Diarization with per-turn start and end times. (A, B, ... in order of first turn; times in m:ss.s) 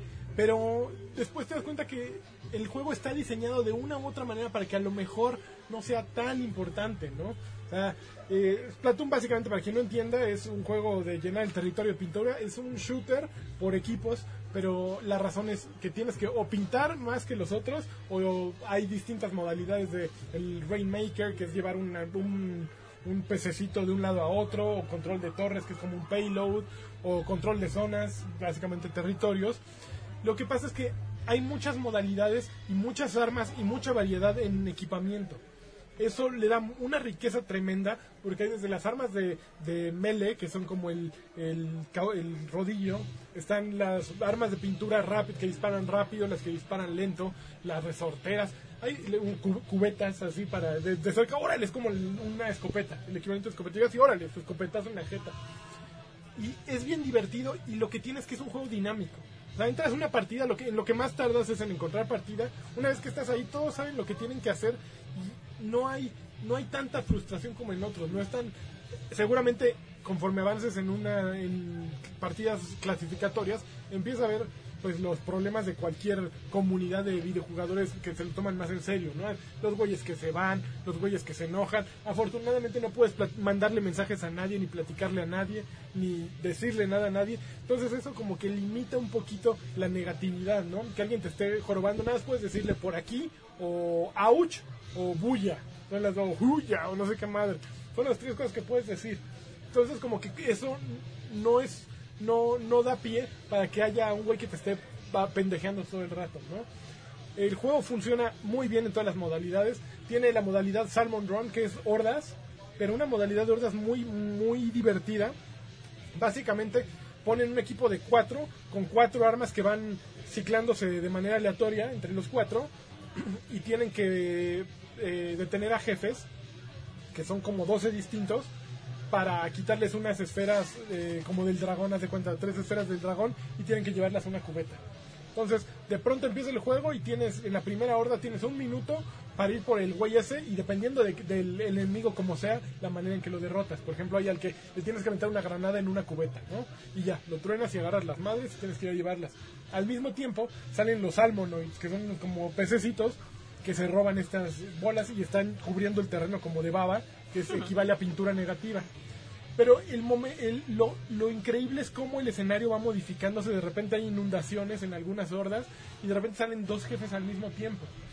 0:00.4-0:29.6 A
0:30.2-0:35.4 A
0:36.0-0:55.3 A
0:56.4-1:08.5 A
1:09.1-1:46.7 A
1:47.4-1:55.3 A
1:56.1-2:06.3 A
2:07.1-2:08.5 A
2:09.1-2:14.8 A
2:15.3-2:38.9 A
2:39.6-2:47.9 A